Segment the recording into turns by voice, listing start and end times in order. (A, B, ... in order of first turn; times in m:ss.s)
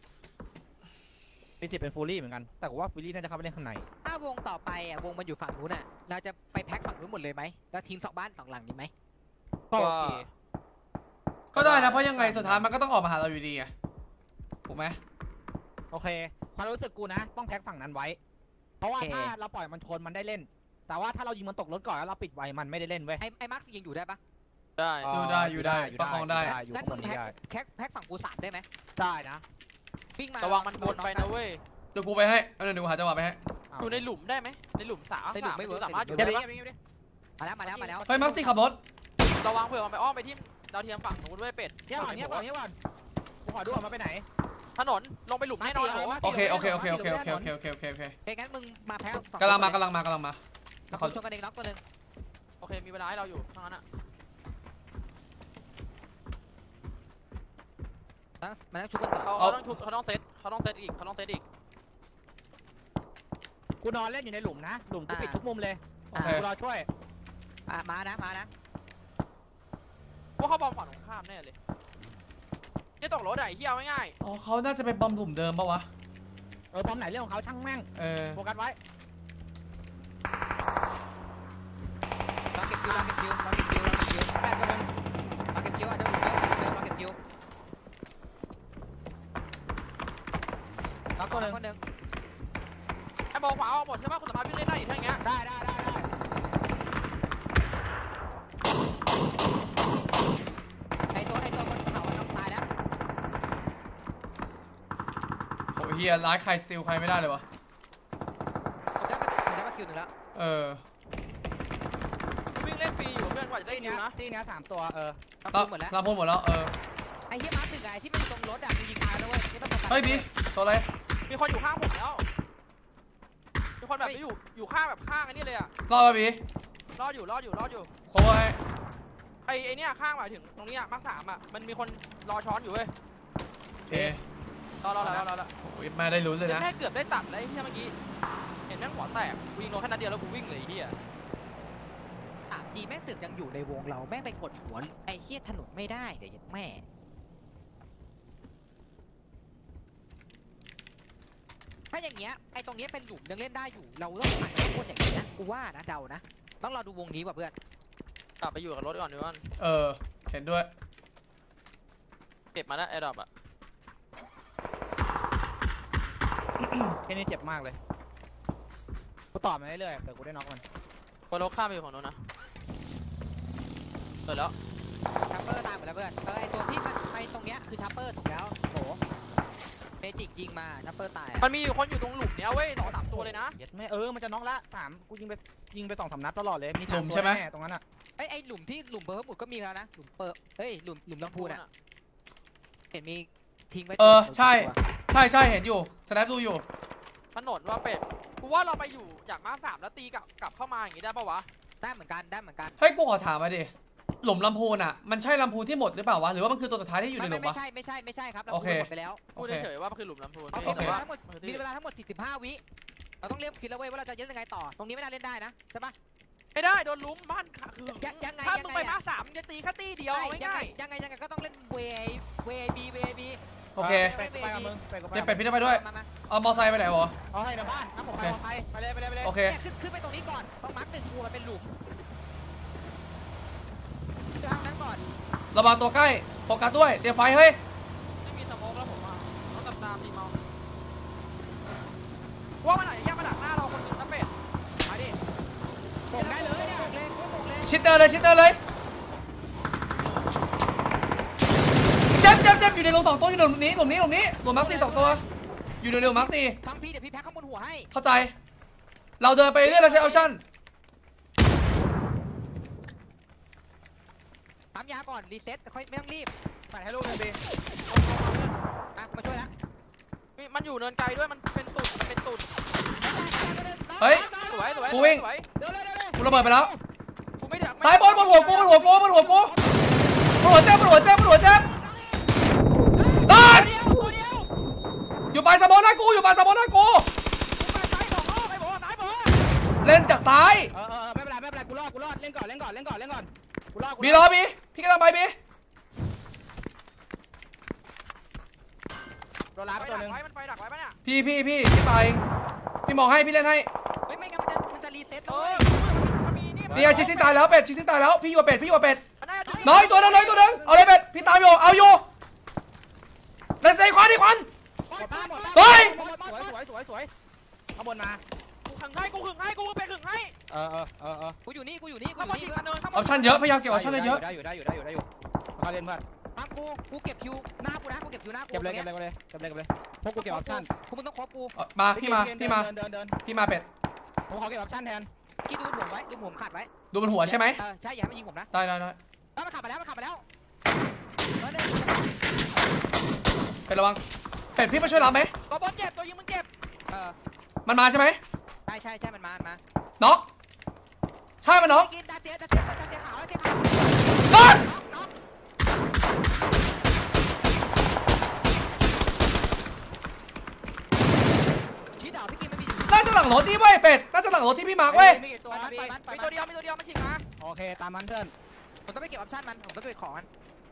0:01.6-0:03.8 A
0:04.0-0:08.9 B
0:09.7-0:10.2 A
0:09.7-0:10.3 C
0:11.5-0:13.7 D
0:11.5-0:12.7 A
0:14.6-0:15.0 D
0:15.9-0:18.2 A
0:18.8-0:23.2 A
0:19.0-0:19.3 B
0:23.2-0:24.2 B
0:24.8-0:25.1 C
0:25.0-0:27.3 A
0:25.1-0:26.6 D
0:26.5-0:28.6 B
0:29.0-0:29.4 A
0:30.2-0:31.3 B
0:30.4-0:31.6 C
0:31.9-0:33.4 D
0:33.7-0:34.1 A
0:33.8-0:36.4 C
0:35.3-0:36.4 B
0:36.2-0:36.8 A
0:37.4-0:38.0 B
0:37.6-0:38.5 A
0:38.1-0:38.8 D
0:39.4-0:42.4 C
0:41.9-0:42.7 A
0:43.4-0:44.2 A
0:44.8-0:46.2 C
0:45.6-0:47.5 A
0:46.2-0:48.2 D
0:48.2-0:49.8 B
0:49.4-0:50.4 D
0:50.9-0:51.8 B
0:50.9-0:51.2 D
0:52.6-0:53.8 C
0:58.4-0:59.3 B
0:59.2-1:01.4 C
1:03.8-1:06.9 A
1:05.1-1:05.4 B
1:06.1-1:06.4 B
1:06.1-1:06.4 D
1:07.7-1:08.5 B
1:10.4-1:11.6 C
1:13.0-1:14.2 C
1:14.2-1:15.9 D
1:16.7-1:18.8 A
1:18.0-1:18.4 D
1:22.5-1:24.4 B
1:24.4-1:24.9 A
1:25.5-1:27.2 B
1:31.2-1:31.6 A
1:31.3-1:31.8 B
1:33.3-1:35.2 C
1:35.2-1:36.1 A
1:41.1-1:42.6 B
1:45.7-1:47.4 D
1:49.0-1:50.1 B
1:50.3-1:50.8 D
1:52.5-1:54.2 C
1:53.7-1:55.2 A
1:55.4-1:55.9 B
1:55.5-1:56.7 D
1:57.3-2:00.3 B
1:59.9-2:00.9 D
2:01.3-2:02.2 C
2:03.8-2:05.7 C
2:05.9-2:06.4 D
2:07.0-2:07.9 C
2:08.1-2:08.6 D
2:09.4-2:12.9 C
2:13.9-2:14.2 D
2:14.8-2:15.5 C
2:15.0-2:15.2 B
2:15.6-2:16.7 D
2:16.4-2:17.9 C
2:18.7-2:21.0 C
2:22.5-2:26.8 B
2:31.9-2:37.5 B
2:38.4-2:39.5 C
2:39.6-2:40.7 D
2:42.5-2:43.3 C
2:47.0-2:47.8 A
2:49.3-2:50.6 A
2:51.3-2:52.2 C
2:54.3-2:54.5 C
2:55.3-2:59.0 B
3:00.0-3:01.5 B
3:01.4-3:03.6 C
3:02.8-3:07.8 A
3:06.9-3:07.4 D
3:08.2-3:11.6 B
3:11.2-3:11.7 C
3:12.9-3:14.8 B
3:14.0-3:16.6 D
3:17.3-3:21.5 C
3:21.8-3:22.8 B
3:22.8-3:27.6 D
3:27.2-3:29.2 B
3:28.5-3:29.7 D
3:29.4-3:31.6 C
3:30.5-3:32.6 B
3:30.6-3:31.0 D
3:33.2-3:35.9 B
3:36.5-3:40.8 C
3:37.9-3:39.0 B
3:40.1-3:44.7 B
3:43.7-3:44.1 D
3:43.8-3:45.4 A
3:45.1-3:47.1 D
3:45.6-3:46.1 B
3:47.3-3:49.3 A
3:49.2-3:49.6 D
3:49.4-3:51.7 B
3:54.4-3:55.0 B
3:55.5-3:57.6 D
3:58.2-4:00.4 C
4:02.6-4:04.3 C
4:04.8-4:05.2 B
4:06.1-4:07.7 B
4:06.1-4:06.9 A
4:07.6-4:08.6 D
4:12.2-4:15.2 D
4:12.4-4:12.8 B
4:14.5-4:15.2 B
4:15.8-4:16.6 D
4:16.0-4:17.9 B
4:17.9-4:18.3 D
4:19.2-4:20.4 D
4:19.6-4:20.3 B
4:24.7-4:26.3 B
4:26.7-4:27.4 A
4:27.9-4:28.6 C
4:29.0-4:29.5 B
4:30.4-4:32.5 C
4:33.0-4:34.9 B
4:34.0-4:34.3 D
4:34.1-4:34.9 A
4:34.4-4:35.5 C
4:34.9-4:35.2 D
4:35.6-4:36.8 A
4:36.2-4:36.7 D
4:37.4-4:39.0 C
4:37.8-4:39.5 D
4:38.6-4:40.2 B
4:40.4-4:41.6 D
4:41.3-4:42.1 B
4:43.0-4:43.6 A
4:43.3-4:44.1 D
4:43.3-4:44.5 C
4:45.3-4:47.1 D
4:47.6-4:49.4 C
4:49.8-4:50.7 D
4:50.7-4:54.3 A
4:54.0-4:55.4 D
4:59.6-5:00.2 A
4:59.7-5:01.0 C
5:01.0-5:02.2 D
5:02.8-5:03.7 D
5:04.1-5:05.7 B
5:05.3-5:07.3 C
5:06.7-5:07.1 A
5:06.7-5:09.0 D
5:09.2-5:10.4 C
5:09.4-5:10.3 B
5:09.6-5:12.0 D
5:10.2-5:10.9 A
5:13.6-5:14.5 D
5:14.9-5:16.5 B
5:14.9-5:17.1 A
5:15.5-5:15.9 D
5:17.8-5:18.2 A
5:18.6-5:20.3 C
5:20.5-5:21.4 A
5:21.4-5:22.6 B
5:22.2-5:23.4 C
5:22.9-5:24.2 D
5:23.7-5:26.0 A
5:26.3-5:28.9 B
5:28.5-5:30.7 A
5:30.2-5:31.6 B
5:31.6-5:32.7 D
5:31.9-5:33.2 A
5:33.2-5:33.6 D
5:34.3-5:35.1 A
5:35.4-5:36.7 B
5:36.9-5:37.6 D
5:37.2-5:38.5 B
5:38.5-5:39.0 D
5:39.4-5:40.2 B
5:41.4-5:42.1 B
5:43.7-5:44.0 D
5:44.5-5:45.3 D
5:45.5-5:46.5 C
5:46.9-5:47.2 B
5:47.6-5:48.2 D
5:48.6-5:49.6 B
5:50.0-5:50.2 D
5:51.4-5:51.9 D
5:51.5-5:55.1 B
5:54.3-5:54.6 D
6:02.0-6:03.1 B
6:02.9-6:05.2 D
6:04.9-6:05.9 A
6:05.4-6:06.3 B
6:05.9-6:07.2 C
6:07.4-6:08.3 A
6:08.9-6:10.3 B